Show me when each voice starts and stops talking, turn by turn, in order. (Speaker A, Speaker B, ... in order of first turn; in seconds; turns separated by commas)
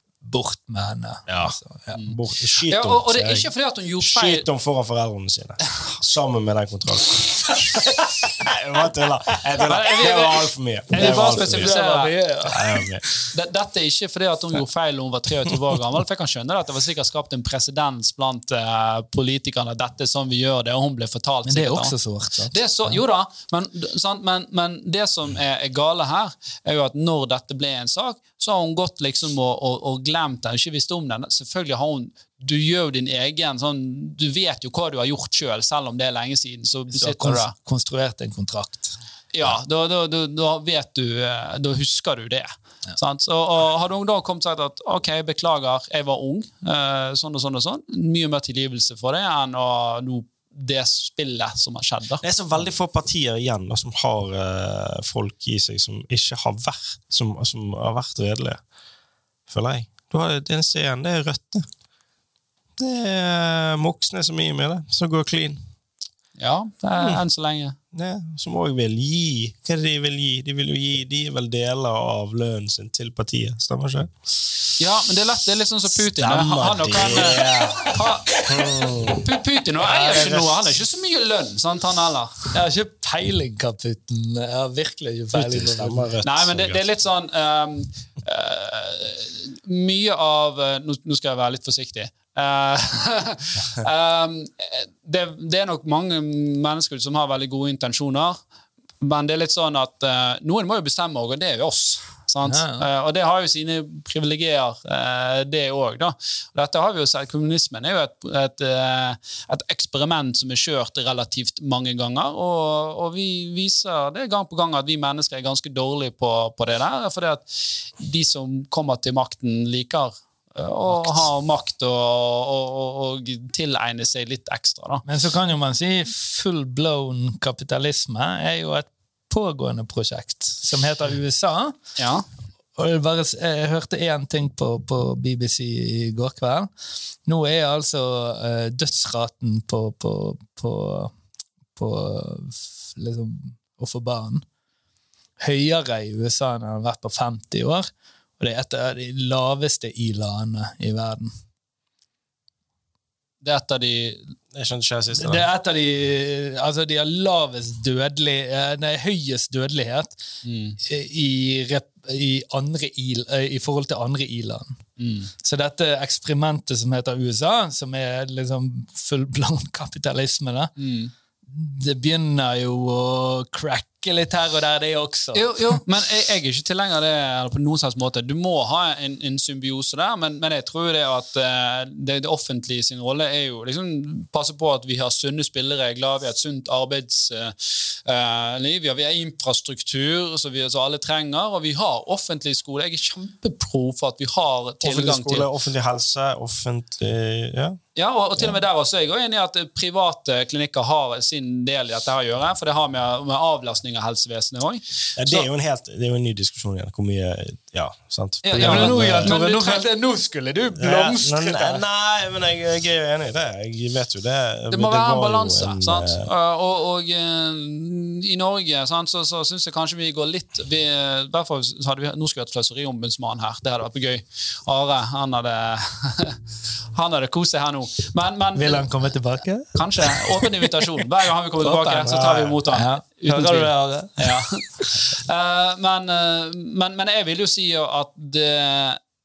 Speaker A: 0.2-2.0, Speaker B: 1.3-3.5, Speaker C: 2.7-4.5, Speaker B: 4.0-11.7, Speaker A: 7.6-7.9, Speaker C: 9.6-12.1, Speaker A: 10.9-12.6, Speaker B: 12.5-13.1, Speaker C: 13.3-21.9, Speaker A: 21.5-23.0, Speaker C: 22.5-37.5, Speaker A: 36.9-39.0, Speaker C: 39.3-52.2, Speaker B: 52.2-58.6, Speaker B: 59.5-61.7, Speaker B: 62.8-65.7, Speaker C: 66.4-67.8, Speaker B: 67.9-74.1, Speaker C: 74.8-78.4, Speaker B: 76.2-80.7, Speaker A: 77.1-78.7, Speaker C: 79.2-82.5, Speaker A: 82.5-86.1, Speaker B: 85.3-86.8, Speaker C: 86.2-98.4, Speaker C: 99.0-125.0, Speaker A: 102.5-102.9, Speaker A: 125.0-131.8, Speaker C: 132.0-132.2, Speaker A: 132.8-136.7, Speaker A: 137.3-141.1, Speaker A: 141.8-144.5, Speaker A: 145.4-151.3, Speaker C: 153.4-154.3, Speaker B: 154.5-155.4, Speaker A: 155.1-160.2, Speaker C: 160.4-160.8, Speaker A: 160.8-164.8, Speaker C: 165.0-165.3, Speaker A: 165.4-170.7, Speaker C: 170.8-171.1, Speaker A: 171.5-175.5, Speaker C: 175.3-195.5, Speaker B: 194.8-197.8, Speaker C: 198.0-205.5, Speaker B: 205.2-209.3, Speaker A: 208.5-211.8, Speaker C: 208.5-209.9, Speaker B: 210.8-216.3, Speaker C: 214.7-226.4, Speaker C: 226.9-229.0, Speaker A: 228.6-230.7, Speaker C: 229.7-239.0, Speaker A: 231.6-235.0